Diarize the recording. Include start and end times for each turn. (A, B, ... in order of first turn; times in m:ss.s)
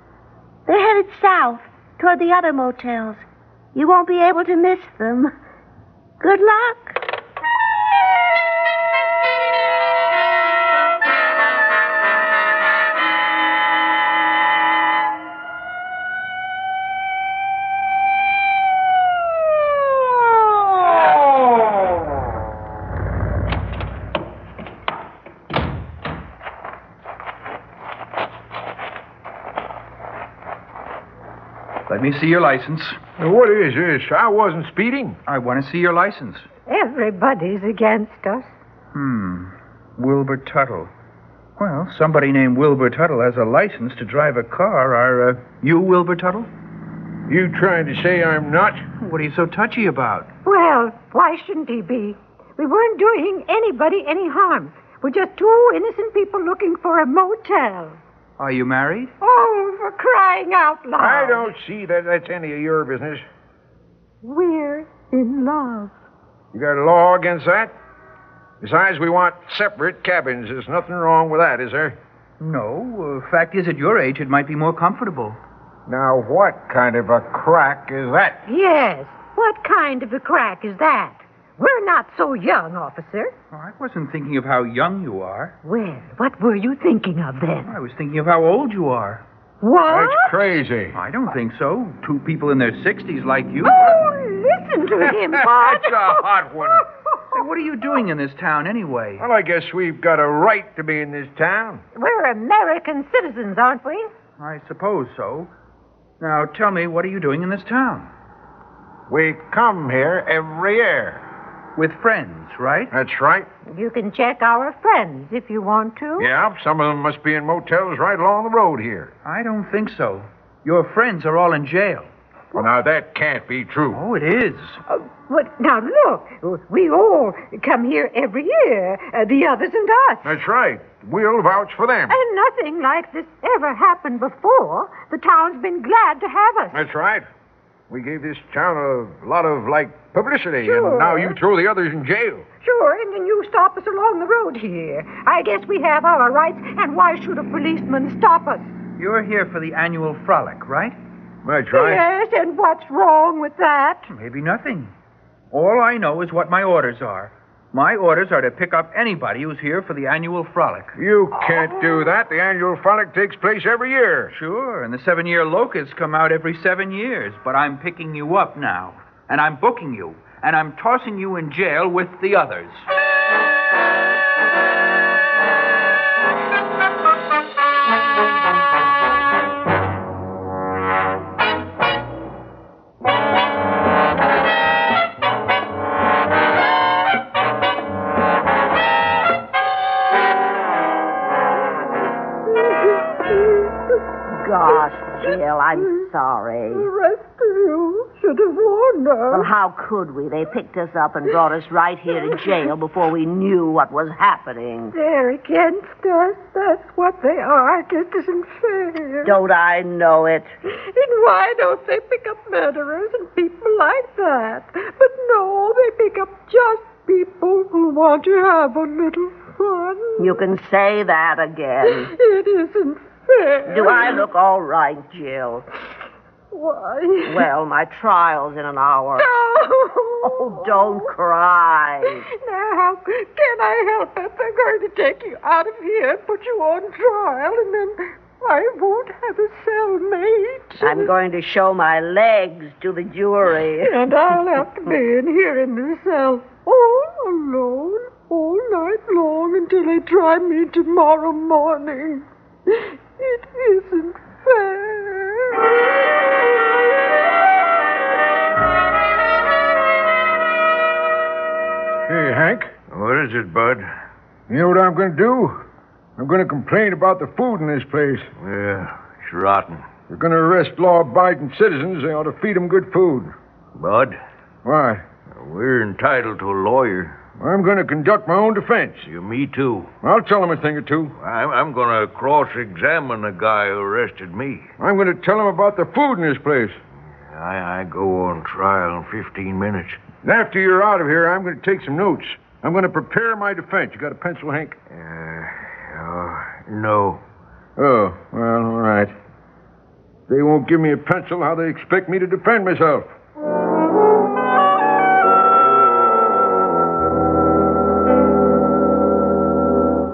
0:00.7-0:05.3 A
0:06.2-0:07.0 A
0:31.9-0:33.0 B
0:33.2-0:35.2 C
0:35.3-0:36.5 B
0:36.7-0:38.5 D
0:38.9-0:40.9 B
0:41.6-0:46.5 B
0:47.3-0:48.8 C
0:49.0-0:50.3 B
0:50.4-0:58.0 D
0:58.4-0:59.1 B
0:59.2-1:01.5 D
1:01.0-1:03.2 C
1:04.2-1:05.9 D
1:06.5-1:07.7 C
1:08.6-1:12.0 C
1:12.4-1:15.4 B
1:15.9-1:18.4 C
1:18.5-1:23.4 D
1:23.5-1:25.6 B
1:25.6-1:27.8 D
1:27.7-1:29.2 B
1:29.6-1:30.3 D
1:29.9-1:31.0 C
1:30.9-1:33.9 B
1:33.6-1:37.4 D
1:35.0-1:36.8 C
1:37.3-1:39.2 B
1:39.2-1:41.8 C
1:42.0-1:44.1 D
1:44.4-1:45.5 B
1:46.2-1:48.1 B
1:49.1-1:51.2 C
1:51.8-1:52.9 B
1:52.9-1:53.5 C
1:53.7-1:56.3 D
1:56.2-1:59.1 C
1:59.2-2:02.1 B
2:02.6-2:04.0 C
2:03.9-2:04.8 B
2:04.9-2:10.4 D
2:10.2-2:12.2 C
2:12.1-2:16.9 D
2:16.7-2:17.3 C
2:17.9-2:22.5 C
2:20.6-2:21.4 D
2:22.6-2:28.7 D
2:29.0-2:31.0 B
2:31.4-2:32.1 C
2:31.7-2:34.1 D
2:34.1-2:34.9 B
2:35.5-2:41.0 B
2:41.0-2:44.3 C
2:44.3-2:52.9 B
3:12.7-3:13.2 D
3:14.3-3:16.9 E
3:16.7-3:19.5 D
3:19.3-3:25.0 E
3:24.9-3:29.3 D
3:29.2-3:30.5 E
3:30.9-3:40.4 D
3:40.2-3:42.1 E
3:42.1-3:44.2 D
3:43.7-3:45.6 E
3:46.5-3:47.4 D
3:47.2-3:49.3 E
3:49.2-3:51.0 D
3:50.2-3:52.2 E
3:52.5-4:01.1 D
4:00.8-4:04.0 E
4:03.8-4:12.2 D
4:13.2-4:15.6 D
4:22.1-4:22.7 C
4:22.9-4:23.9 F
4:24.5-4:25.6 C
4:26.2-4:28.3 C
4:28.4-4:29.8 F
4:30.1-4:33.3 C
4:33.8-4:34.2 F
4:34.6-4:35.0 C
4:35.3-4:37.2 F
4:37.4-4:39.1 C
4:39.0-4:39.9 F
4:40.0-4:41.1 C
4:41.2-4:44.7 F
4:44.8-4:46.8 C
4:47.2-4:50.0 F
4:50.2-4:54.8 C
4:54.9-4:57.2 F
4:57.8-4:59.1 C
5:00.3-5:03.1 C